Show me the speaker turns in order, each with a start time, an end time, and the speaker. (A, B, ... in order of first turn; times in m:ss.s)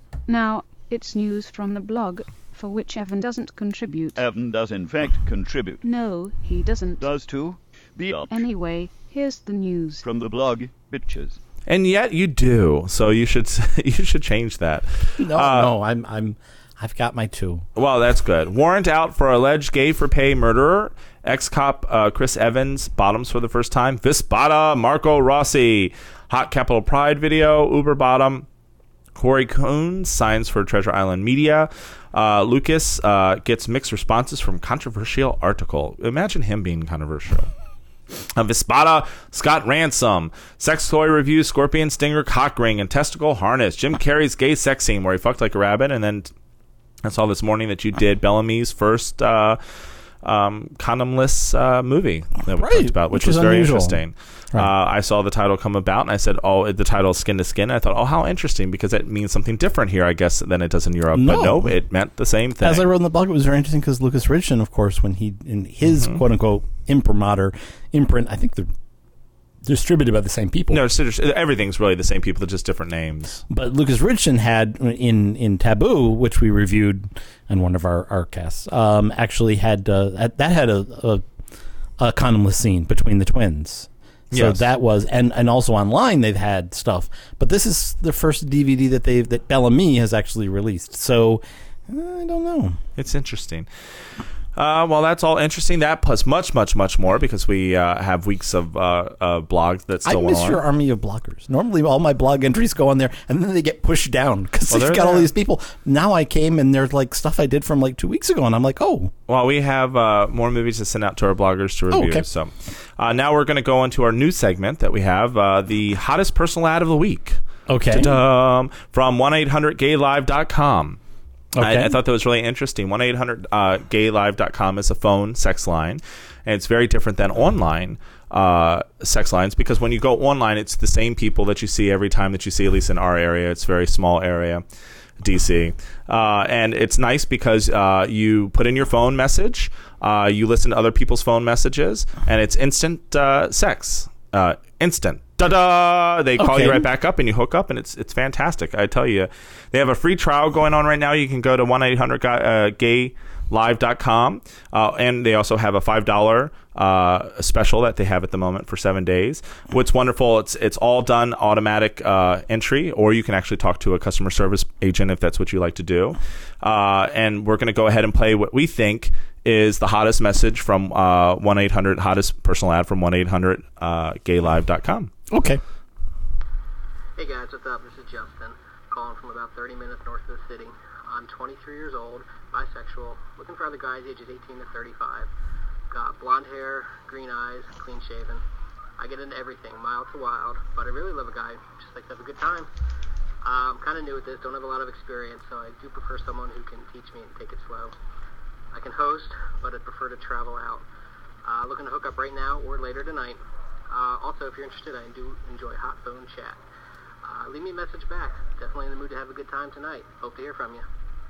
0:00.3-0:04.2 A
0:04.2-0:05.8 B
0:05.8-0:07.1 A
0:07.0-0:08.4 B
0:08.3-0:10.0 A
0:10.0-0:11.4 B
0:11.7-0:15.7 C
0:15.2-0:17.6 D
0:17.8-0:28.4 C
0:29.1-0:37.5 C
0:38.4-0:46.3 C
0:47.0-0:49.6 C
0:50.2-1:02.8 C
0:52.5-0:54.0 D
1:01.1-1:01.7 D
1:02.6-1:08.7 D
1:05.9-1:06.2 C
1:09.6-1:10.8 D
1:10.7-1:13.4 C
1:13.5-1:21.2 D
1:22.0-1:32.8 D
1:24.3-1:24.6 C
1:33.0-1:33.7 C
1:34.5-1:40.6 C
1:40.0-1:49.1 D
1:44.7-1:45.3 C
1:49.3-2:01.0 C
1:51.9-1:52.2 D
1:57.7-1:58.1 D
2:01.6-2:02.0 D
2:01.6-2:14.6 C
2:15.2-2:55.1 C
2:26.4-2:26.8 D
2:55.3-2:55.6 D
2:57.2-3:05.3 E
3:05.9-3:08.4 E
3:09.0-3:12.7 E
3:13.4-3:17.9 E
3:18.7-3:20.8 E
3:21.4-3:26.6 E
3:27.2-3:30.8 E